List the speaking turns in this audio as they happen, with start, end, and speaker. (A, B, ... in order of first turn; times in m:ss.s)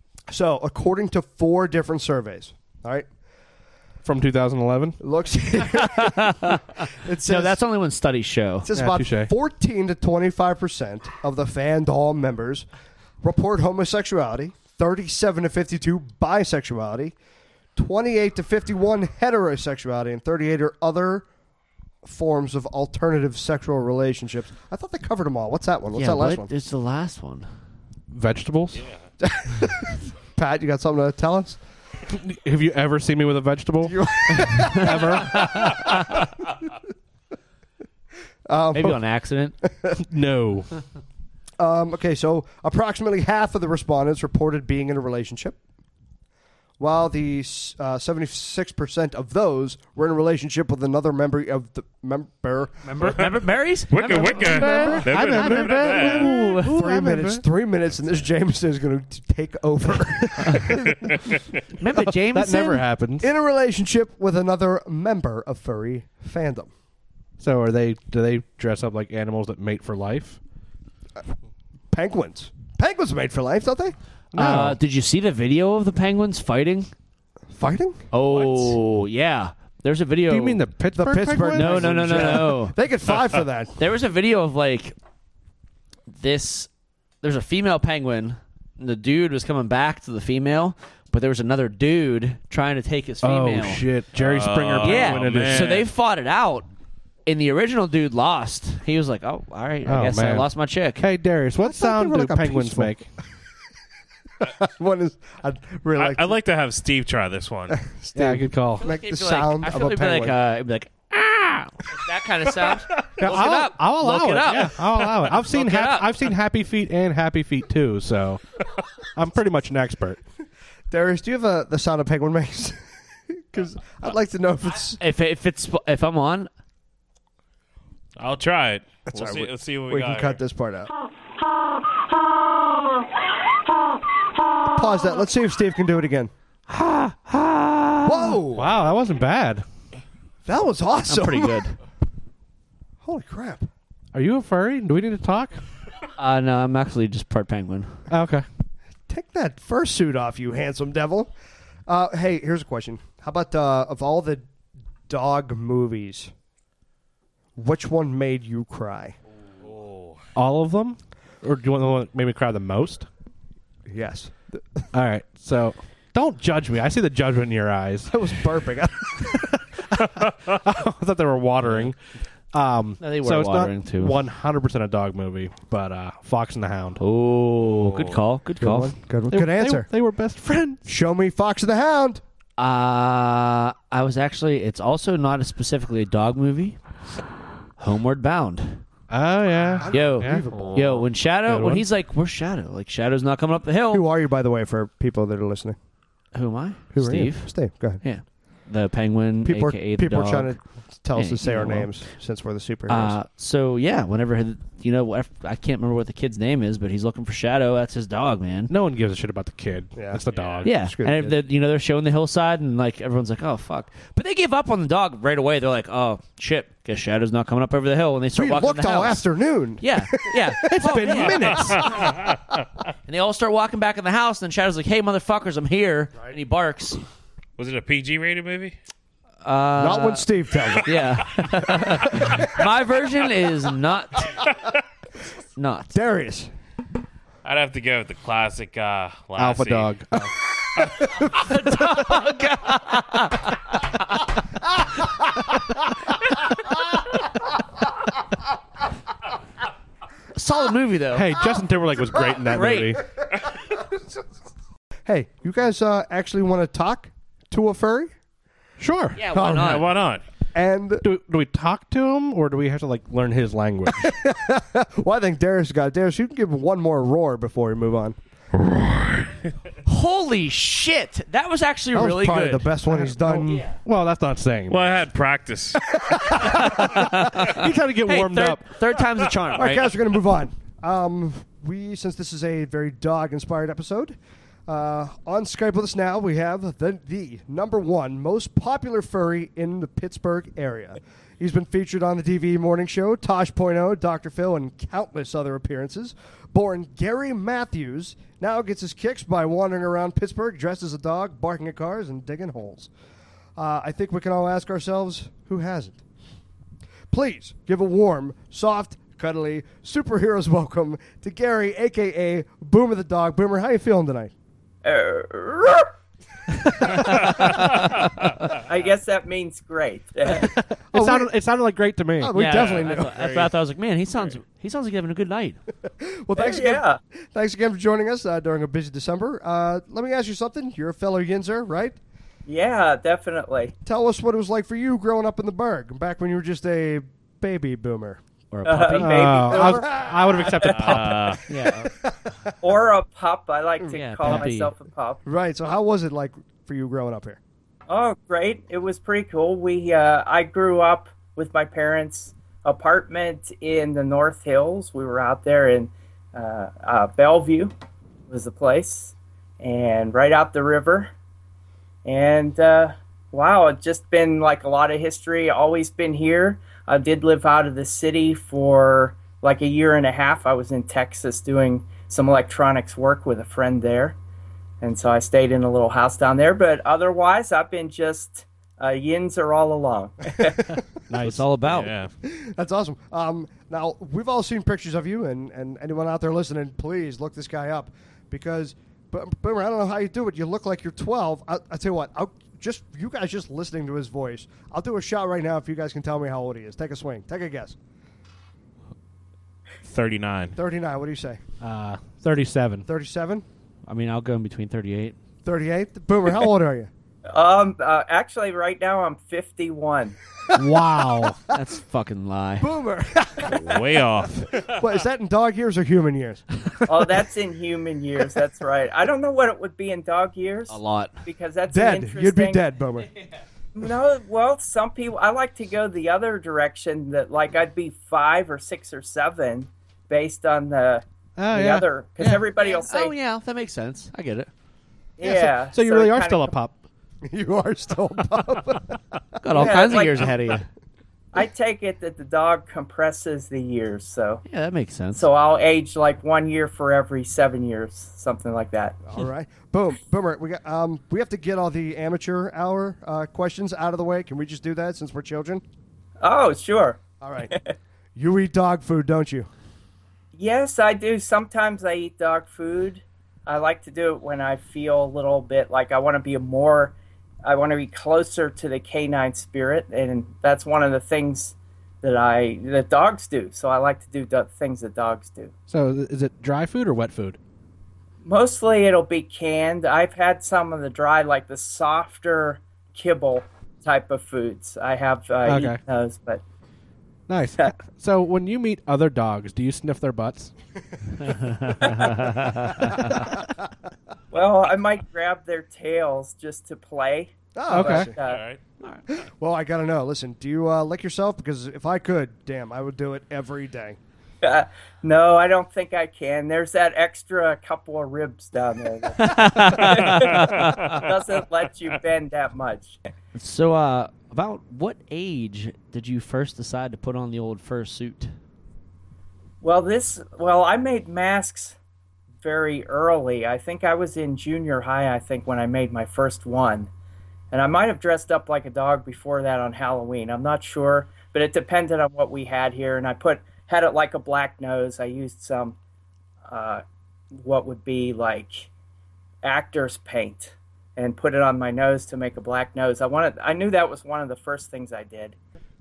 0:00.3-0:03.1 A
0:04.0-0:05.0 B
0:05.0-0:07.6 A
0:05.7-0:08.7 C
0:08.7-0:12.6 A
0:08.8-0:09.3 B
0:13.2-0:17.1 A
0:17.8-0:21.2 A
0:22.0-0:26.5 A
0:25.9-0:27.5 C
0:28.1-0:28.8 B
0:29.2-0:31.6 A
0:32.1-0:35.8 B
0:33.8-0:36.2 A
0:34.6-0:35.9 C
0:38.4-0:39.0 A
0:38.7-0:39.5 C
0:39.6-0:40.0 A
0:40.0-0:40.7 B
0:41.6-0:45.6 A
0:46.8-0:53.2 A
0:52.8-0:56.7 C
0:53.9-0:56.3 D
0:54.5-0:55.1 A
0:54.5-0:57.4 B
0:56.6-1:01.3 A
1:00.4-1:00.7 C
1:00.8-1:01.4 D
1:01.8-1:02.8 C
1:02.3-1:03.3 B
1:03.2-1:06.7 A
1:07.4-1:10.4 B
1:11.9-1:13.9 A
1:14.3-1:14.8 B
1:14.3-1:16.9 C
1:17.5-1:18.0 A
1:18.1-1:20.6 C
1:18.2-1:18.8 D
1:20.3-1:22.5 B
1:20.9-1:23.8 A
1:21.5-1:22.8 C
1:23.8-1:24.9 C
1:26.1-1:26.7 C
1:27.2-1:33.8 C
1:33.2-1:35.8 B
1:34.1-1:35.9 D
1:34.8-1:36.7 C
1:37.2-1:41.0 C
1:39.8-1:43.1 B
1:41.6-1:42.9 A
1:44.4-1:46.4 A
1:45.9-1:47.8 D
1:47.7-1:50.4 A
1:48.1-1:48.8 B
1:48.8-1:56.1 C
1:53.2-1:58.4 B
1:59.1-2:00.2 B
2:00.9-2:05.0 A
2:05.0-2:06.5 C
2:08.2-2:10.4 D
2:09.1-2:10.9 A
2:14.7-2:16.3 A
2:16.7-2:18.4 C
2:18.0-2:18.7 A
2:18.5-2:19.6 B
2:20.4-2:21.6 A
2:21.1-2:21.8 C
2:23.0-2:23.7 A
2:24.1-2:25.6 B
2:26.2-2:28.0 C
2:28.1-2:28.4 B
2:29.1-2:31.3 A
2:31.9-2:34.4 A
2:35.1-2:36.3 A
2:37.6-2:39.1 A
2:39.6-2:40.2 D
2:40.3-2:43.1 B
2:43.9-2:44.8 A
2:44.9-2:48.1 B
2:48.1-2:49.4 A
2:49.3-2:52.0 B
2:52.5-2:57.0 B
2:53.0-2:54.2 C
2:57.0-2:58.9 C
2:57.9-2:58.2 D
2:58.6-2:59.9 A
2:59.3-3:00.8 B
3:00.8-3:02.2 A
3:02.6-3:06.8 C
3:07.8-3:08.8 C
3:09.1-3:10.4 B
3:09.8-3:11.1 A
3:09.9-3:14.0 C
3:10.5-3:10.8 D
3:11.4-3:11.8 B
3:13.9-3:15.8 A
3:16.3-3:20.5 C
3:16.9-3:18.0 A
3:19.4-3:23.2 A
3:21.1-3:21.9 C
3:22.9-3:28.7 C
3:28.7-3:30.7 B
3:29.9-3:31.4 A
3:30.3-3:30.7 D
3:30.6-3:39.2 C
3:38.3-3:42.3 A
3:39.8-3:41.9 C
3:40.7-3:41.8 B
3:41.8-3:42.4 D
3:43.1-3:47.0 C
3:47.6-3:48.8 D
3:49.4-3:54.4 C
3:49.8-3:50.9 A
3:52.1-3:52.4 A
3:55.6-3:56.0 C
3:55.9-3:56.5 A
3:57.4-4:00.2 D
3:59.4-4:00.3 B
4:01.0-4:01.9 A
4:01.2-4:04.2 C
4:10.3-4:11.5 C
4:11.1-4:13.0 B
4:12.4-4:13.0 C
4:15.0-4:18.1 A
4:18.8-4:19.2 B
4:19.1-4:19.9 C
4:19.3-4:19.9 A
4:19.5-4:20.2 D
4:20.5-4:21.0 A
4:21.0-4:24.1 B
4:23.9-4:28.2 A
4:28.6-4:29.4 D
4:29.8-4:32.7 C
4:31.9-4:33.6 A
4:33.3-4:33.8 C
4:33.3-4:34.9 B
4:34.7-4:35.8 D
4:35.9-4:36.7 A
4:36.4-4:39.9 C
4:36.5-4:38.7 B
4:39.5-4:44.2 A
4:44.7-5:02.9 A
5:03.6-5:06.0 A
5:07.1-5:14.3 A
5:14.8-5:15.9 E
5:16.9-5:18.5 D
5:18.4-5:20.5 E
5:20.4-5:22.4 B
5:20.9-5:21.3 A
5:22.2-5:23.2 A
5:22.3-5:25.6 C
5:22.4-5:23.5 D
5:25.8-5:32.0 A
5:26.4-5:27.0 E
5:32.4-5:33.7 E
5:33.8-5:38.2 A
5:38.5-5:39.5 C
5:38.6-5:41.1 E
5:38.9-5:41.4 B
5:39.5-5:40.5 A
5:40.6-5:41.4 D
5:41.5-5:41.9 C
5:41.6-5:42.5 A
5:42.6-5:45.2 E
5:43.8-5:44.4 A
5:43.9-5:44.7 C
5:45.2-5:47.4 A
5:47.9-5:57.7 E
5:58.3-6:01.1 E
6:02.0-6:14.2 E
6:14.8-6:20.8 E
6:20.4-6:20.8 A
6:21.1-6:21.5 B
6:21.2-6:21.9 C
6:21.7-6:22.1 D
6:22.2-6:37.8 A
6:39.8-6:40.6 D
6:40.6-6:41.4 A
6:41.6-6:42.8 B
6:42.8-6:43.4 A
6:43.9-6:45.2 C
6:45.4-6:46.9 A
6:47.3-6:50.2 E
6:50.5-6:51.6 A
6:50.5-6:51.4 B
6:51.5-6:52.7 C
6:52.6-6:53.8 A
6:53.4-6:54.9 D
6:54.5-6:56.4 A
6:56.8-7:02.6 E
7:00.7-7:01.1 C
7:01.7-7:03.1 A
7:03.8-7:13.1 E
7:11.4-7:12.4 B
7:12.6-7:14.5 C
7:15.2-7:16.6 E
7:15.2-7:16.8 B
7:17.2-7:19.9 A
7:19.4-7:20.6 C
7:19.5-7:20.6 E
7:21.3-7:24.4 E
7:24.5-7:25.3 C
7:25.1-7:29.0 E
7:29.0-7:35.6 A
7:36.2-7:37.7 E
7:37.2-7:37.5 A
7:38.1-7:39.5 A
7:40.3-7:55.5 E
7:55.7-7:57.4 B
7:58.2-8:06.4 E
8:05.4-8:05.8 B
8:07.3-8:10.5 B
8:11.2-8:12.1 B
8:11.4-8:13.2 C
8:12.9-8:13.2 A
8:14.3-8:18.4 E
8:17.5-8:18.1 A
8:17.7-8:18.1 B
8:18.2-8:18.6 D
8:19.1-8:24.0 A
8:24.4-8:33.0 E
8:29.2-8:31.0 C
8:30.3-8:31.0 D
8:33.3-8:38.3 C
8:39.6-8:41.8 E
8:42.4-8:46.9 E
8:47.5-8:55.8 E
8:56.5-8:56.8 E
8:57.3-8:58.7 E
8:59.4-9:05.4 E